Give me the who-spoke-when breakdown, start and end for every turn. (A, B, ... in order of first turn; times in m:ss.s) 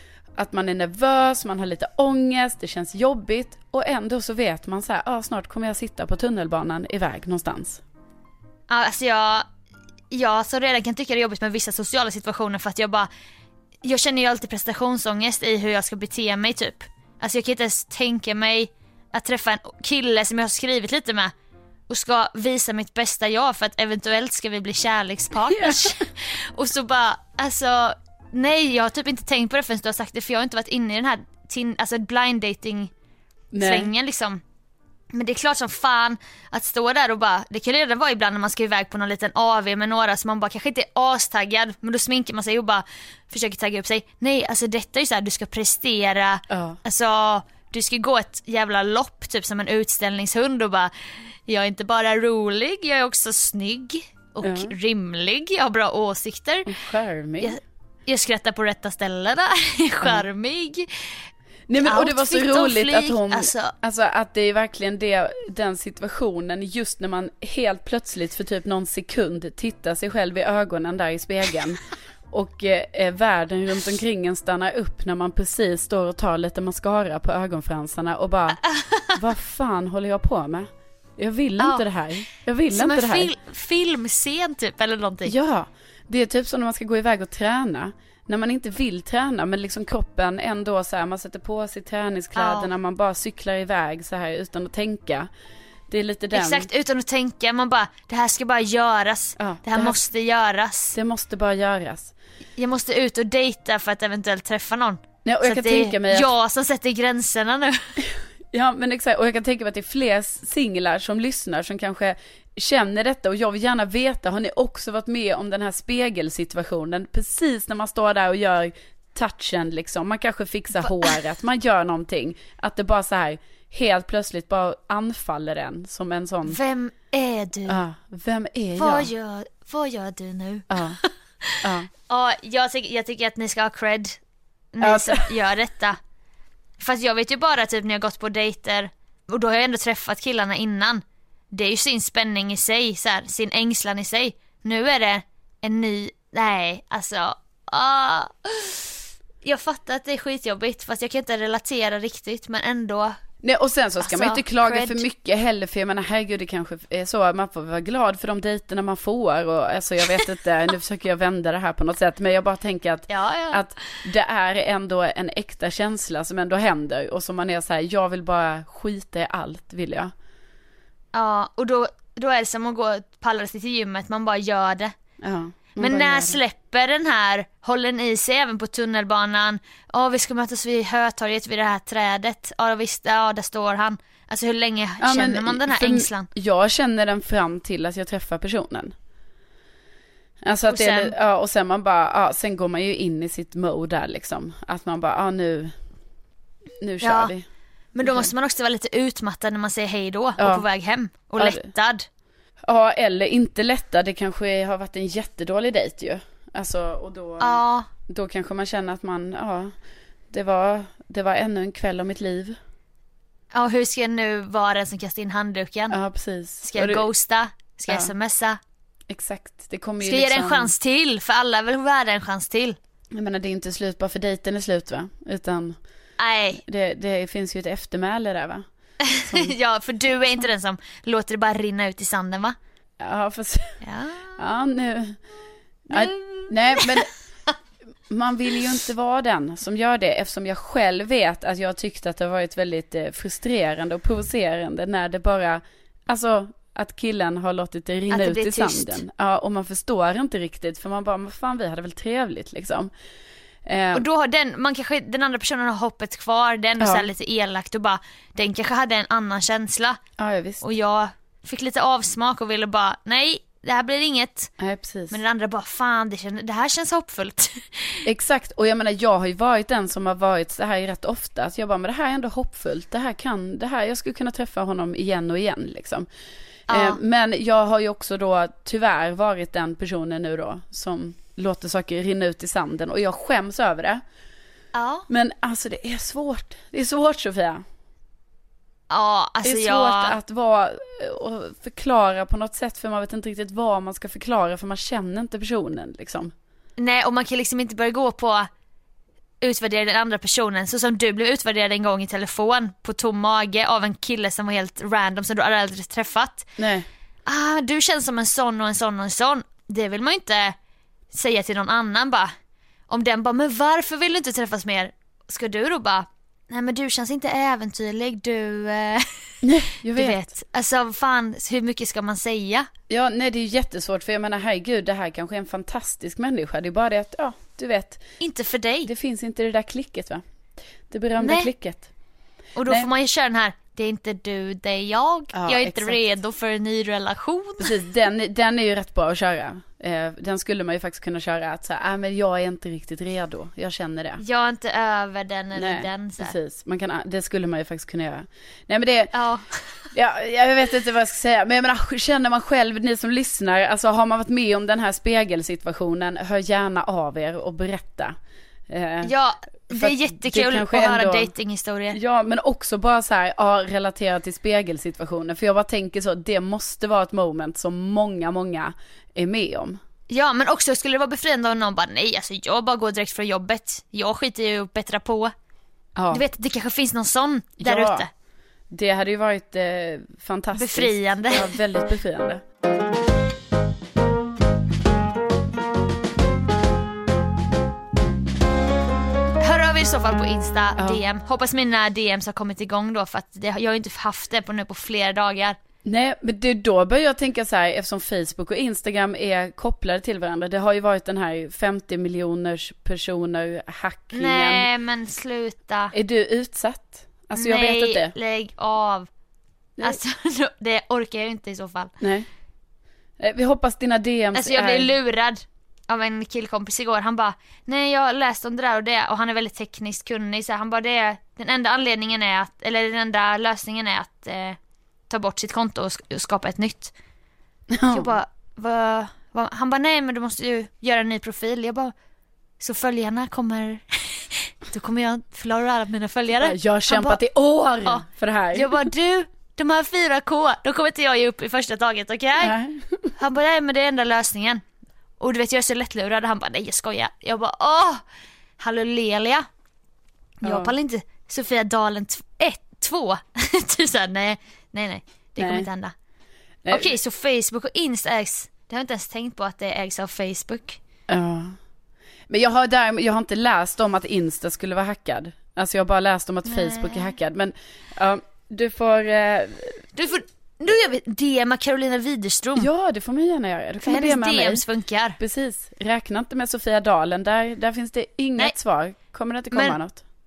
0:00.4-0:07.8 A
0:08.7-0:09.4 B
0:10.1-0:13.1 B
0:13.8-0:21.3 B
0:21.9-0:32.9 B
0:25.5-0:26.0 A
0:33.5-0:33.9 A
0:33.6-0:34.4 B
0:35.1-0:50.9 B
0:46.5-0:46.8 A
0:51.5-0:56.7 B
0:54.4-0:54.7 A
0:56.7-0:57.6 A
0:57.4-1:00.9 B
1:01.7-1:18.6 A
1:01.8-1:03.7 B
1:18.6-1:19.2 B
1:19.1-1:23.3 A
1:21.6-1:21.8 B
1:22.7-1:25.3 B
1:25.3-1:35.3 A
1:32.4-1:32.7 B
1:35.9-1:36.7 A
1:36.3-1:41.0 B
1:39.4-1:40.0 A
1:40.9-1:42.1 A
1:42.6-1:48.0 B
1:45.2-1:46.3 A
1:48.5-2:06.6 A
2:00.8-2:01.1 B
2:06.5-2:07.8 B
2:07.7-2:09.1 A
2:08.8-2:14.2 B
2:10.7-2:11.0 A
2:11.6-2:11.9 A
2:14.7-2:16.0 B
2:14.8-2:15.3 A
2:16.8-2:33.2 B
2:33.4-2:50.1 A
2:34.0-2:35.0 B
2:43.1-2:44.0 B
2:51.1-2:54.9 B
2:55.2-2:56.4 A
2:55.8-3:06.3 B
3:05.0-3:08.9 A
3:10.4-3:15.8 A
3:10.7-3:11.1 B
3:16.8-3:17.4 A
3:17.0-3:17.3 B
3:17.9-3:22.0 B
3:18.0-3:18.3 A
3:20.4-3:20.7 A
3:21.4-3:21.7 A
3:22.7-3:29.7 A
3:27.4-3:27.9 B
3:30.3-3:32.6 A
3:33.5-3:36.0 B
3:35.9-3:37.0 A
3:36.6-3:38.6 B
3:37.9-3:38.1 A
3:39.1-3:40.7 A
3:40.0-3:42.8 B
3:43.1-3:45.8 A
3:46.2-3:46.6 B
3:46.6-3:49.6 A
3:49.0-3:52.6 B
3:53.0-3:53.8 A
3:53.8-3:54.4 B
3:54.4-3:55.2 A
3:55.9-3:57.1 A
3:55.9-3:57.5 B
3:58.1-4:12.9 A
4:08.1-4:09.0 B
4:13.6-4:14.0 A
4:13.9-4:20.0 B
4:16.8-4:17.1 A
4:20.2-4:20.6 A
4:20.6-4:24.5 B
4:24.6-4:25.2 A
4:25.1-4:28.0 B
4:28.0-4:36.1 A
4:36.7-4:37.0 B
4:36.7-4:44.0 A
4:44.7-4:45.1 B
4:45.1-4:47.6 A
4:48.9-4:50.2 B
4:49.4-4:56.3 A
4:56.8-4:58.5 B
4:59.4-5:06.5 B
5:06.6-5:06.9 A
5:07.3-5:10.6 B
5:11.1-5:12.3 B
5:12.9-5:19.1 B
5:19.4-5:20.3 A
5:19.9-5:22.7 B
5:22.9-5:28.0 A
5:28.2-5:28.9 B
5:28.8-5:30.2 A
5:30.9-5:31.9 A
5:31.2-5:31.5 B
5:32.6-5:37.8 B
5:35.3-5:36.0 A
5:37.6-5:44.2 A
5:44.2-5:46.4 B
5:45.6-5:49.1 A
5:49.1-5:49.9 B
5:49.9-5:58.2 A
5:58.7-5:59.1 A
5:59.0-6:02.0 B
5:59.7-6:01.3 A
6:01.9-6:09.8 A
6:10.1-6:15.3 B
6:16.0-6:16.2 A
6:16.1-6:18.1 B
6:17.6-6:18.1 A
6:18.7-6:22.4 A
6:20.5-6:21.5 B
6:29.4-6:35.6 B
6:35.8-6:44.7 A
6:44.1-6:45.9 B
6:45.9-6:48.2 A
6:47.4-6:49.1 B
6:49.8-6:51.9 B
6:52.0-6:52.3 A
6:53.2-6:54.9 A
6:54.3-7:04.6 B
7:05.1-7:06.9 B
7:07.7-7:08.2 A
7:07.9-7:11.9 B
7:12.6-7:17.2 B
7:16.4-7:18.9 A
7:17.8-7:22.5 B
7:22.4-7:23.0 A
7:23.2-7:24.6 B
7:25.2-7:28.0 B
7:28.6-7:29.4 B
7:30.4-7:36.0 B
7:30.4-7:30.7 A
7:35.4-7:35.7 A
7:36.6-7:36.9 A
7:36.7-7:40.8 B
7:41.1-7:41.6 A
7:42.3-7:49.9 A
7:46.5-7:47.1 B
7:50.0-7:52.7 B
7:52.6-7:54.6 A
7:53.8-7:55.2 B
7:55.2-8:00.0 A
7:59.5-7:59.8 B